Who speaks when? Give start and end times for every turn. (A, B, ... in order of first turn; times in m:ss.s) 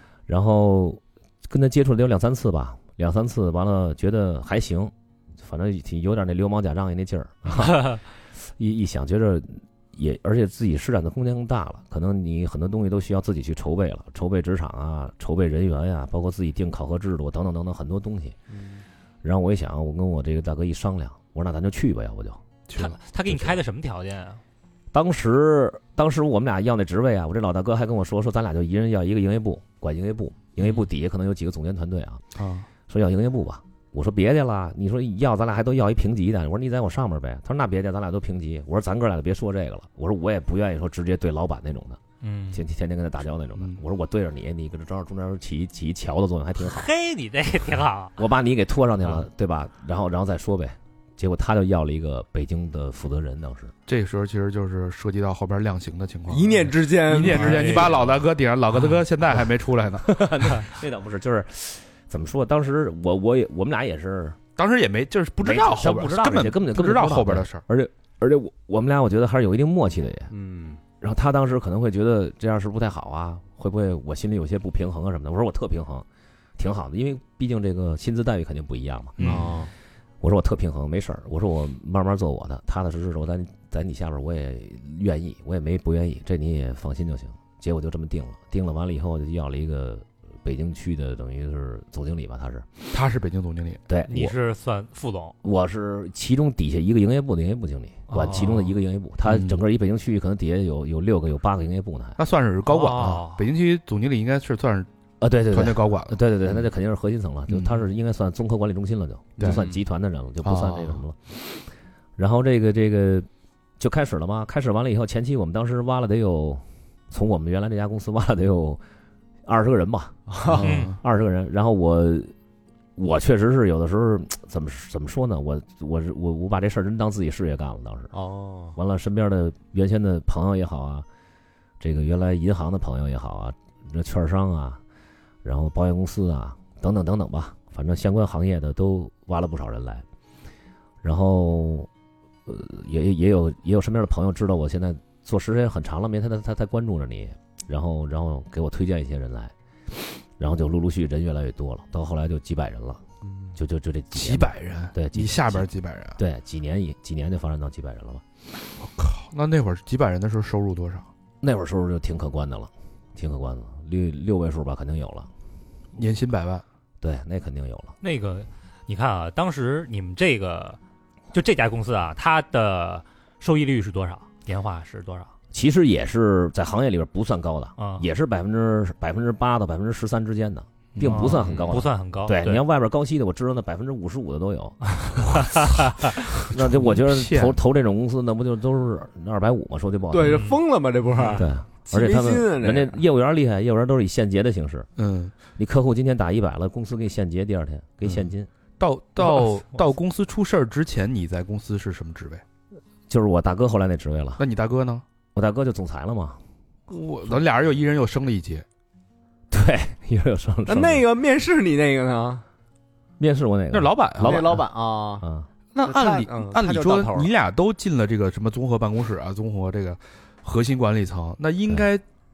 0:00.3-0:18.4 A
0:18.5-0:18.8 B
0:19.2-0:22.4 A
0:22.7-0:23.0 C
0:22.8-0:24.4 D
0:23.3-0:23.6 A
0:24.9-0:32.2 A
0:32.4-0:32.7 C
0:32.9-0:42.0 A
0:42.2-0:42.6 D
0:42.5-0:46.9 A
0:46.6-0:48.2 D
0:48.2-0:53.7 A
0:53.9-1:00.3 C
0:56.3-0:58.0 B
0:57.2-0:57.9 D
1:00.0-1:04.4 A
1:04.6-1:07.6 C
1:05.4-1:10.3 A
1:10.3-1:10.8 B
1:11.0-1:16.0 A
1:16.6-1:19.2 A
1:19.2-1:19.6 C
1:19.2-1:19.7 B
1:20.2-1:32.7 A
1:32.9-1:33.8 C
1:33.9-1:34.4 A
1:34.1-1:35.4 D
1:35.4-1:42.2 A
1:38.1-1:38.7 D
1:39.2-1:39.6 C
1:42.2-1:44.9 C
1:42.7-1:43.4 D
1:45.2-1:51.7 A
1:45.5-1:46.2 C
1:47.5-1:47.8 C
1:49.4-1:49.6 C
1:49.4-1:49.8 B
1:50.4-1:51.0 C
1:52.2-1:53.3 A
1:53.8-1:58.8 A
1:59.5-2:02.3 A
2:00.3-2:00.6 B
2:00.5-2:01.0 C
2:00.6-2:01.0 D
2:03.0-2:08.1 A
2:08.1-2:08.8 B
2:08.8-2:11.0 A
2:11.8-2:14.8 A
2:15.4-2:20.0 A
2:21.0-2:21.9 A
2:22.5-2:29.5 A
2:30.4-2:33.0 A
2:33.6-2:38.2 A
2:34.1-2:36.2 C
2:38.8-2:41.1 C
2:41.4-2:45.3 A
2:46.0-2:46.6 C
2:47.0-2:48.0 A
2:48.0-2:50.8 D
2:51.3-2:55.3 D
2:55.5-3:05.6 A
2:57.8-2:58.0 D
3:01.0-3:01.6 C
3:01.0-3:02.6 D
3:05.2-3:05.8 D
3:06.4-3:10.4 A
3:06.4-3:07.6 C
3:10.1-3:13.0 B
3:10.3-3:10.6 D
3:11.4-3:14.9 A
3:15.0-3:15.4 C
3:15.6-3:18.5 A
3:18.8-3:22.4 C
3:23.1-3:24.4 A
3:24.4-3:25.0 C
3:25.4-3:26.4 A
3:26.9-3:28.7 C
3:29.5-3:31.1 A
3:30.7-3:32.4 B
3:33.2-3:34.7 A
3:33.7-3:34.6 C
3:34.2-3:35.2 B
3:35.2-3:35.5 A
3:35.8-3:42.0 C
3:35.8-3:37.3 B